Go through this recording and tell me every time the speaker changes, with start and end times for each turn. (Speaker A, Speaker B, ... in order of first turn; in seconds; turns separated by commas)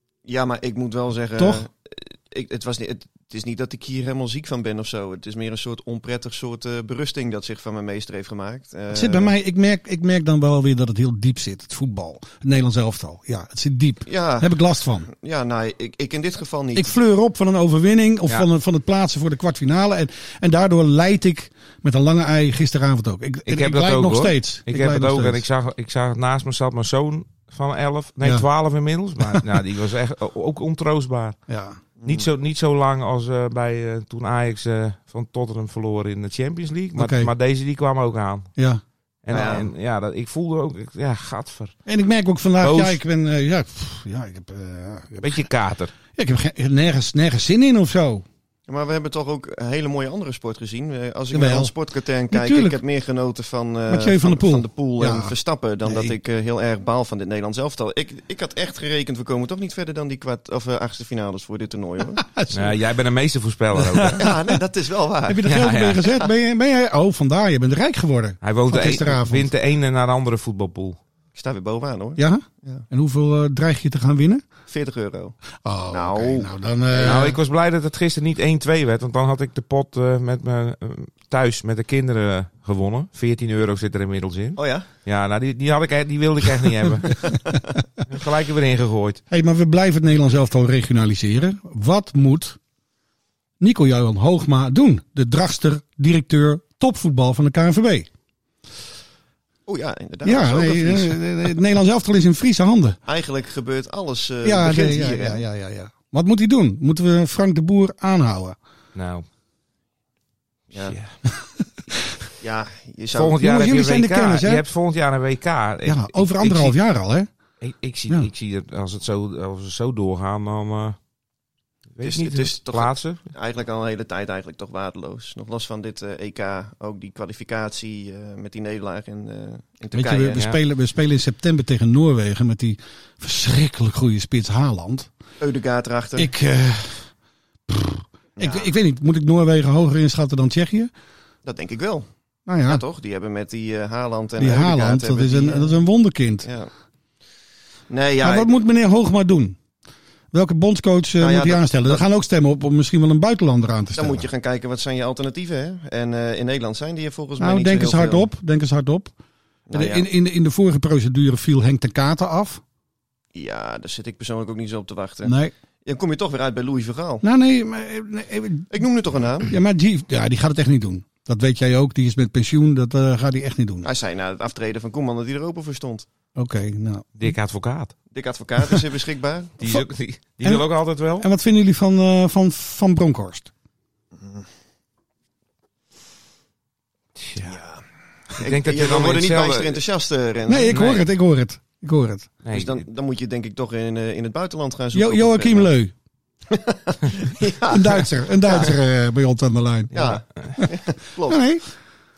Speaker A: 0.3-9.3, Speaker B: 1.4-1.6, Speaker B: 8.9-15.1, Speaker A: 14.1-14.6, Speaker A: 15.1-16.9, Speaker B: 16.8-25.4, Speaker C: 23.5-31.4, Speaker B: 31.5-31.8, Speaker A: 32.0-32.3, Speaker C: 32.1-38.5, Speaker B: 37.0-37.3, Speaker C: 39.2-41.8, Speaker A: 39.3-39.7, Speaker B: 41.9-45.4, Speaker C: 42.6-43.0, Speaker C: 45.2-45.9, Speaker B: 46.1-48.2, Speaker A: 48.7-62.3, Speaker B: 51.3-51.7, Speaker B: 52.3-52.8, Speaker B: 53.9-55.3, Speaker B: 55.9-56.1, Speaker B: 62.2-62.8, Speaker C: 62.5-64.3, Speaker B: 64.0-64.3, Speaker A: 64.1-65.5, Speaker B: 65.3-69.5, Speaker C: 65.5-66.1, Speaker C: 68.4-71.0, Speaker A: 71.4-72.9, Speaker B: 72.2-74.4, Speaker A: 74.7-75.4, Speaker B: 75.5-77.4, Speaker A: 75.9-76.5, Speaker C: 76.9-87.3, Speaker A: 84.6-84.9, Speaker C: 88.1-89.2, Speaker B: 89.3-92.6, Speaker B: 93.6-98.1, Speaker A: 99.7-101.5, Speaker B: 100.2-103.0, Speaker A: 103.1-105.4, Speaker B: 104.4-108.6, Speaker C: 109.0-109.3, Speaker A: 110.7-111.0, Speaker C: 110.8-111.2, Speaker A: 112.4-113.4, Speaker C: 113.1-116.8, Speaker B: 113.4-114.6, Speaker B: 115.8-117.3, Speaker C: 117.6-121.0, Speaker C: 122.0-123.3, Speaker A: 122.0-130.4, Speaker B: 129.9-135.1, Speaker A: 135.4-136.3, Speaker B: 136.2-137.1, Speaker B: 137.7-140.9, Speaker A: 138.4-138.7, Speaker A: 141.4-142.1, Speaker B: 142.5-142.8, Speaker A: 142.7-145.8, Speaker B: 144.4-146.5, Speaker A: 146.4-146.7, Speaker A: 147.9-148.5, Speaker B: 148.2-149.6, Speaker B: 150.3-154.3, Speaker A: 151.2-152.0, Speaker A: 153.9-158.3, Speaker B: 157.4-159.1, Speaker A: 159.7-160.1, Speaker B: 159.7-162.6, Speaker A: 163.3-167.2, Speaker B: 165.2-165.5, Speaker B: 167.2-168.8, Speaker A: 168.7-169.5, Speaker B: 169.5-173.9, Speaker A: 173.8-176.1, Speaker B: 176.4-177.3, Speaker C: 177.2-177.9, Speaker A: 178.1-179.6, Speaker C: 179.6-181.3, Speaker B: 181.2-183.5, Speaker A: 184.2-184.4, Speaker C: 187.2-187.6, Speaker A: 187.4-187.8, Speaker A: 188.3-190.9, Speaker C: 188.4-189.8, Speaker B: 190.5-192.3, Speaker C: 190.7-191.0, Speaker C: 192.4-192.8, Speaker A: 192.5-195.7, Speaker B: 194.9-195.9, Speaker A: 196.5-198.7, Speaker B: 197.7-200.7, Speaker A: 199.9-201.5, Speaker B: 201.3-201.7